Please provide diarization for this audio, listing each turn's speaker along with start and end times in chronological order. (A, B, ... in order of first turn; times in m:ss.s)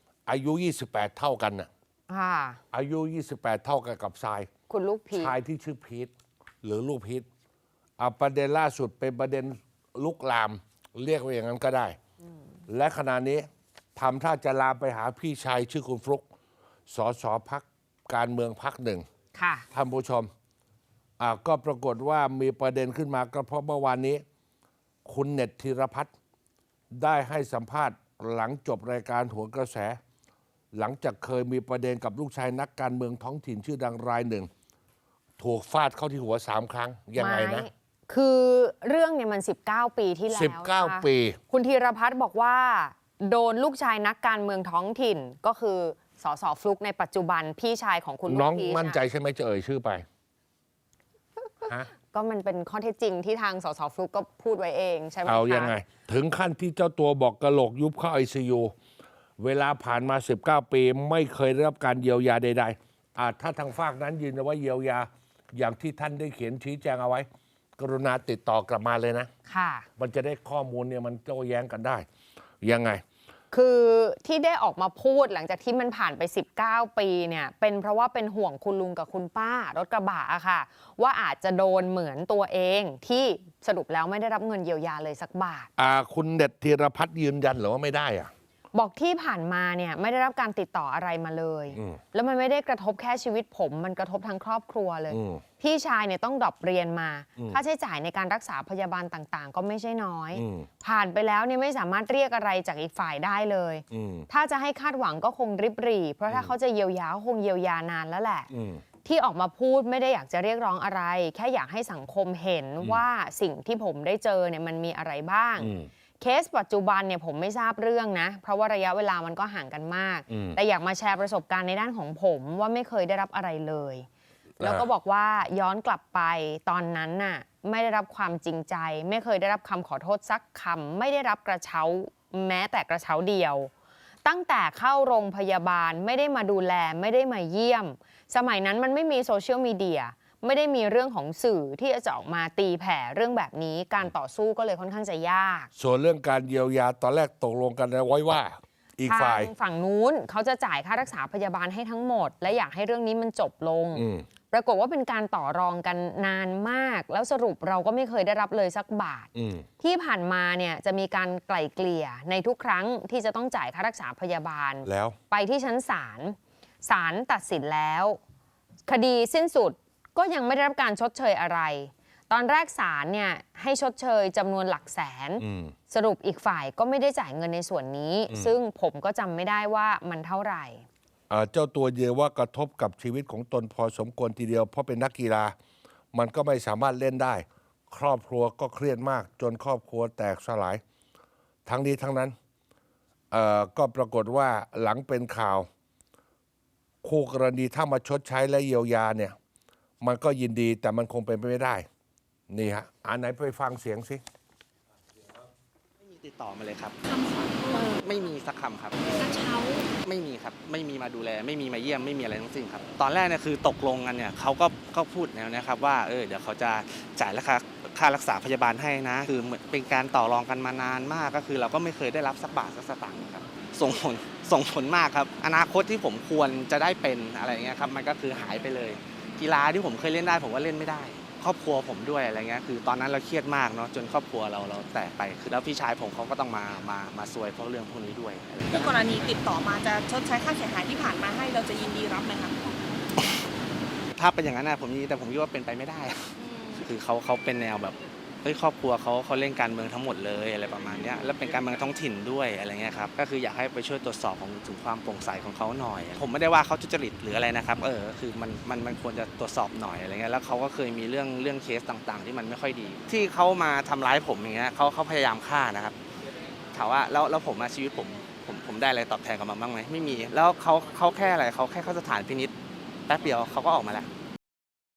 0:00.3-0:01.7 A
0:02.1-0:02.6 B
0:02.7-0:04.5 A
0:04.7-0:05.4 B
0:05.1-0:06.1 A
0:06.6-0:07.3 A
0:08.0-0:12.0 A
0:12.7-0:16.2 A
0:16.9-0:19.0 A
0:19.4-0:19.7 B
0:19.7-0:20.3 A
0:21.2-0:24.2 A
0:25.0-0:26.1 A
0:26.9-0:30.0 A
0:30.7-0:34.5 A
0:35.4-0:37.7 A
0:37.2-0:49.0 B
0:40.3-0:41.4 A
0:48.2-0:50.0 A
0:51.6-0:51.9 A
0:51.7-0:55.7 B
0:55.2-0:58.7 A
0:59.4-1:07.3 A
1:07.8-1:09.3 A
1:09.5-1:09.9 B
1:10.0-1:12.1 A
1:12.6-1:13.0 A
1:13.5-1:25.7 B
1:25.8-1:28.3 A
1:28.7-1:48.5 B
1:31.7-1:32.0 A
1:35.1-1:35.4 A
1:40.3-1:40.7 A
1:43.9-1:44.3 A
1:48.5-1:48.8 A
1:49.0-2:04.1 B
1:55.6-1:55.9 A
2:00.3-2:00.6 A
2:04.6-2:13.7 B
2:04.6-2:04.9 A
2:14.2-2:25.7 B
2:25.8-2:29.5 A
2:29.0-2:39.3 B
2:33.9-2:34.3 A
2:39.3-2:39.7 A
2:39.8-2:48.2 B
2:44.8-2:45.2 A
2:48.9-3:00.8 B
2:55.4-2:55.7 A
2:58.3-2:58.6 A
3:01.3-3:05.5 A
3:06.1-3:10.8 A
3:11.6-3:12.3 A
3:13.3-3:15.7 A
3:17.0-3:19.4 A
3:20.0-3:21.9 A
3:22.5-3:24.2 A
3:26.0-3:59.0 C
3:58.7-4:03.0 D
4:04.2-4:26.0 C
4:26.7-4:32.5 C
4:33.1-4:34.1 C